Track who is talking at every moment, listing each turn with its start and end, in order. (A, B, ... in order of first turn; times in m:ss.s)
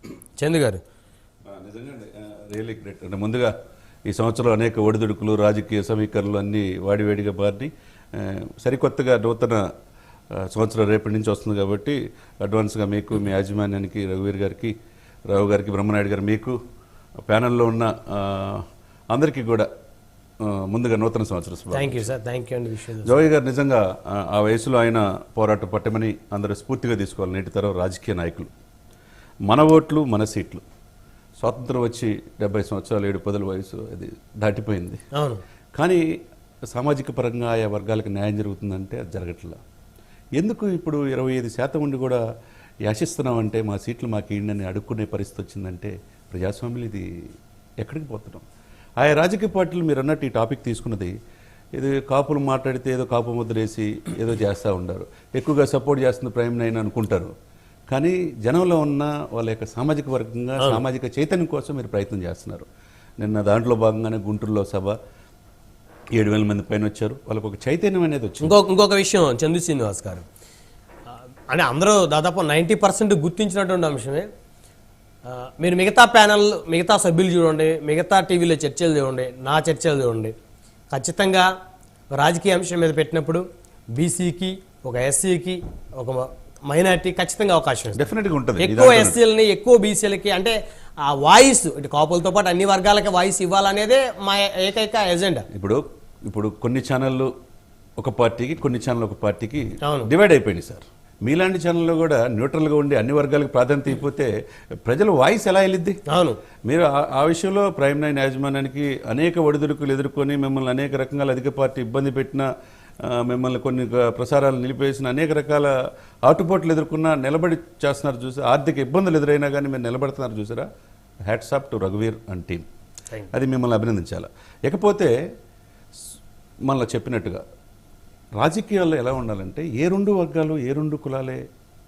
0:00.4-0:00.8 A
0:01.5-0:03.5 B
0:04.1-0:09.7 B
0:10.3-0:14.8 B
0:15.3-0:16.6 B
0:17.3-0:19.7 B
0:20.4-0:22.1 B
0:21.7-0:23.2 A
0:23.0-0:28.5 B
0:29.5-0:30.6 B
0:31.4-0:35.0 B
0:35.2-0:35.4 A
0:35.8-0:36.0 B
0:36.7-0:39.6 B
0:40.4-0:42.2 B
0:42.9-0:47.1 B
0:47.8-0:48.4 B
0:49.0-0:51.1 B
0:51.8-0:57.3 B
0:57.9-1:02.7 B
1:03.2-1:05.0 B
1:06.2-1:08.6 B
1:08.4-1:10.2 A
1:11.5-1:14.3 A
1:15.3-1:20.3 A
1:20.9-1:21.5 A
1:22.1-1:23.4 A
1:24.0-1:28.0 A
1:27.9-1:29.2 B
1:28.6-1:35.4 A
1:35.5-1:37.3 B
1:38.0-1:44.3 B
1:39.8-1:40.1 A
1:44.9-1:46.0 B
1:46.1-1:46.4 A
1:46.7-1:52.5 B
1:53.0-1:55.7 B
1:56.3-2:00.7 B
2:01.3-2:02.6 B
2:03.3-2:05.1 B
2:06.7-2:07.4 B
2:08.4-2:11.4 B